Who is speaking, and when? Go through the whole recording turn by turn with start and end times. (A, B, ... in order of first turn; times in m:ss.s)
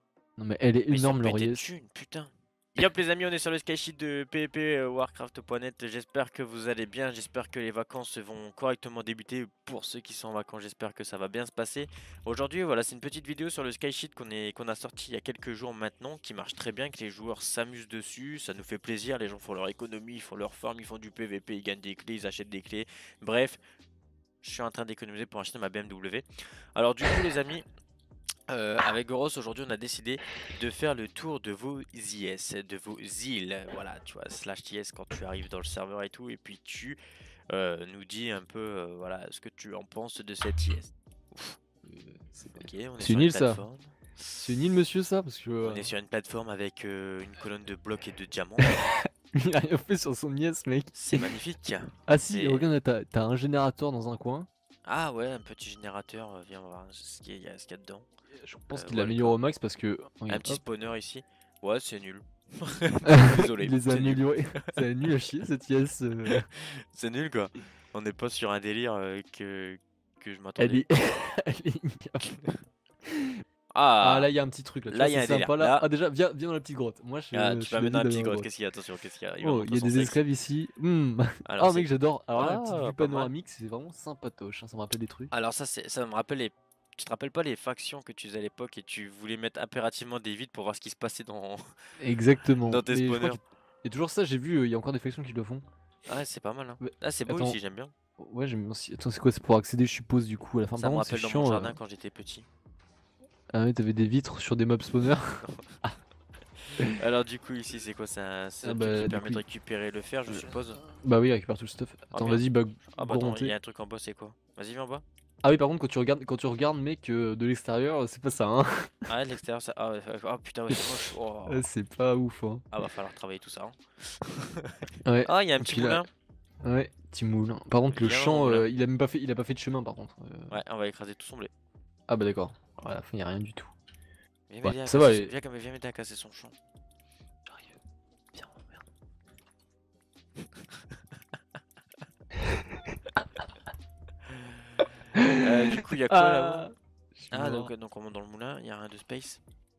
0:00.4-0:01.7 A
0:00.9-0:23.6 B
0:24.4-0:27.6 B
0:28.5-0:37.0 B
0:37.5-0:41.6 B
0:41.8-0:43.6 A
0:42.5-0:43.9 B
0:44.3-0:45.9 A
0:45.6-0:48.7 B
0:48.6-0:51.3 A
0:50.9-0:52.7 B
0:52.1-0:54.5 A
0:54.8-0:58.0 B
0:58.3-1:00.6 A
0:58.7-0:59.4 B
1:00.3-1:04.3 B
1:03.0-1:06.5 A
1:06.3-1:10.8 B
1:10.6-1:12.3 A
1:13.1-1:13.4 A
1:13.7-1:14.3 B
1:14.0-1:18.5 A
1:14.9-1:15.8 B
1:17.3-1:20.2 B
1:19.4-1:25.3 A
1:21.5-1:23.3 B
1:25.3-1:31.6 B
1:32.0-1:35.6 A
1:32.6-1:33.4 B
1:36.1-1:37.9 B
1:36.8-1:37.6 A
1:38.2-1:41.8 A
1:40.7-1:42.5 B
1:43.5-1:46.0 A
1:46.9-1:50.8 B
1:48.6-1:49.4 A
1:50.9-1:53.5 A
1:52.1-1:52.4 B
1:53.0-1:55.0 B
1:55.4-1:58.9 A
1:59.1-2:01.7 B
2:01.4-2:02.6 A
2:02.7-2:06.0 B
2:05.0-2:06.0 A
2:06.6-2:10.6 A
2:07.9-2:08.7 B
2:10.5-2:11.5 B
2:12.1-2:13.7 A
2:14.5-2:16.5 B
2:14.6-2:15.3 A
2:18.3-2:18.7 A
2:25.1-2:27.7 A
2:25.4-2:26.7 B
2:27.3-2:29.4 B